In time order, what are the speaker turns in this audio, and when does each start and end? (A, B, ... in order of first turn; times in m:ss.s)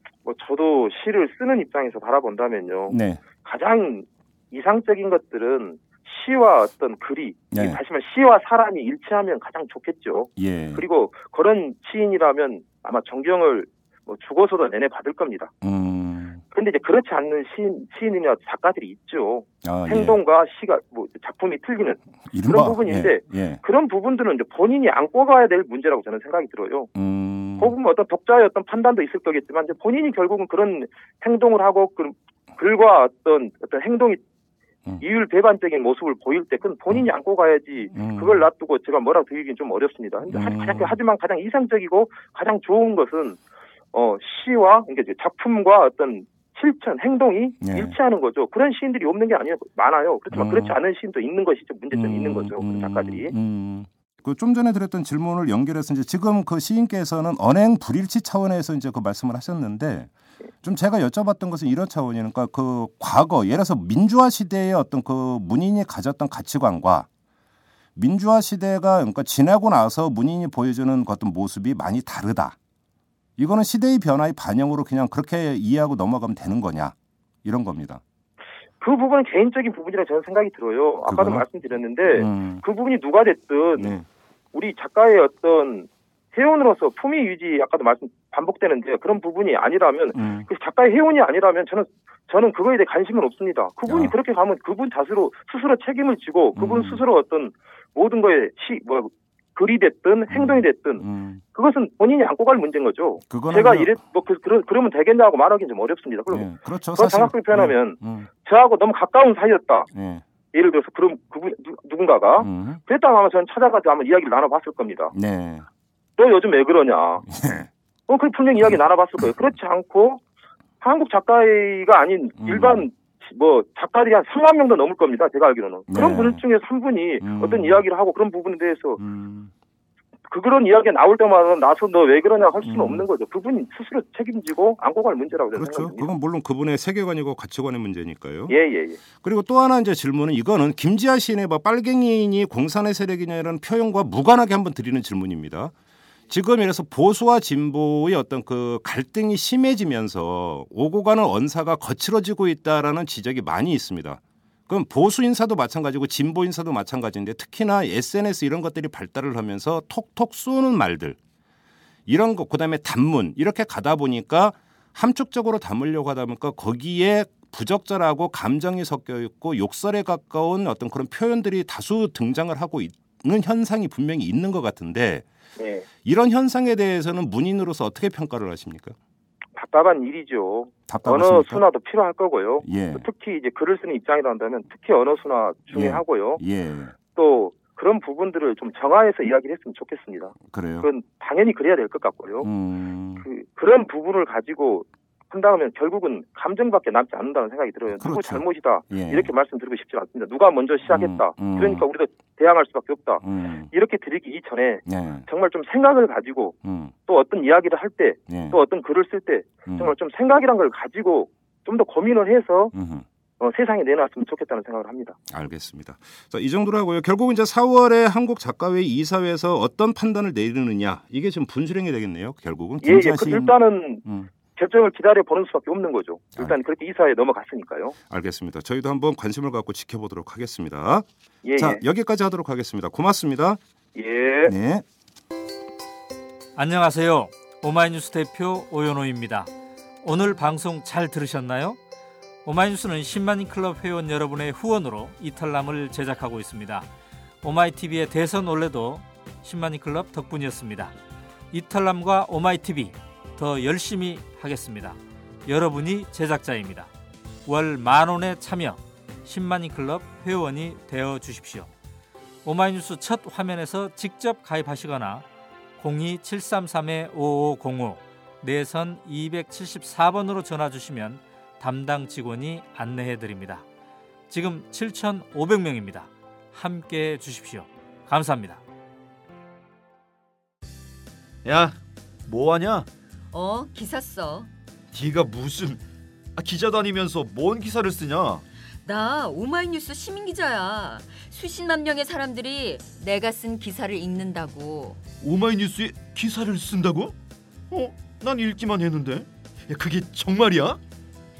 0:00.2-0:15.5 A
0:02.9-0:03.2 B
0:07.5-0:07.8 B
0:10.4-0:10.8 B
0:15.6-0:16.4 B
0:16.5-0:26.9 A
0:19.6-0:20.2 B
0:22.3-0:23.6 B
0:26.9-0:27.7 B
0:27.6-0:34.2 A
0:35.0-0:43.4 A
0:37.9-0:38.4 B
0:40.3-0:40.9 B
0:43.9-0:53.3 A
0:47.6-0:48.0 B
0:50.3-0:50.8 B
0:51.9-1:00.1 B
1:00.6-1:07.1 B
1:08.0-1:12.6 B
1:13.4-1:18.0 B
1:18.8-1:23.9 A
1:21.0-1:21.4 B
1:22.1-1:22.6 B
1:23.8-1:24.0 B
1:24.5-1:49.9 A
1:30.1-1:30.5 B
1:33.9-1:34.1 B
1:36.5-1:37.0 B
1:40.3-1:41.4 B
1:43.3-1:44.0 B
1:46.3-1:48.3 B
1:49.9-1:50.2 B
1:50.5-1:55.1 A
1:52.4-1:52.8 B
1:55.1-1:55.6 B
1:56.2-1:57.2 A
1:57.2-1:57.7 B
1:58.1-2:00.2 A
2:00.8-2:09.0 A
2:02.4-2:02.8 B
2:05.9-2:06.4 B
2:07.2-2:07.8 B
2:09.0-2:09.5 B
2:10.3-2:16.1 A
2:12.6-2:13.0 B
2:15.5-2:18.6 B
2:18.5-2:19.0 A
2:19.2-2:25.7 B
2:26.3-2:41.2 B
2:42.1-2:55.2 B
2:55.6-2:55.8 A
2:56.0-2:59.0 B
2:59.6-3:06.4 A
3:00.9-3:01.6 B
3:02.6-3:03.0 B
3:05.7-3:06.9 B
3:07.1-3:12.5 A
3:10.4-3:10.9 B
3:12.4-3:13.2 B
3:13.2-3:32.7 A
3:18.0-3:19.3 B
3:20.9-3:21.8 B
3:23.2-3:23.7 B
3:24.8-3:25.2 B
3:26.6-3:26.9 B
3:28.3-3:28.6 B
3:29.6-3:29.9 B
3:32.7-3:33.0 B
3:33.4-3:35.2 A
3:35.3-3:44.3 B
3:42.8-3:44.0 A
3:44.5-3:48.0 A
3:48.1-3:53.6 B
3:51.4-3:51.8 A
3:53.9-3:54.5 A
3:54.4-3:54.8 B
3:56.6-3:59.5 C
4:00.0-4:01.8 C
4:02.4-4:06.9 C
4:07.4-4:10.9 C
4:11.5-4:16.9 C
4:17.4-4:21.7 C
4:22.4-4:25.2 C
4:25.8-4:33.6 C
4:34.3-4:38.6 C
4:41.4-4:42.9 D
4:43.3-4:44.5 E
4:44.9-4:45.8 D
4:46.4-4:48.4 D
4:48.8-4:55.0 E
4:55.2-4:57.2 D
4:57.7-5:00.8 D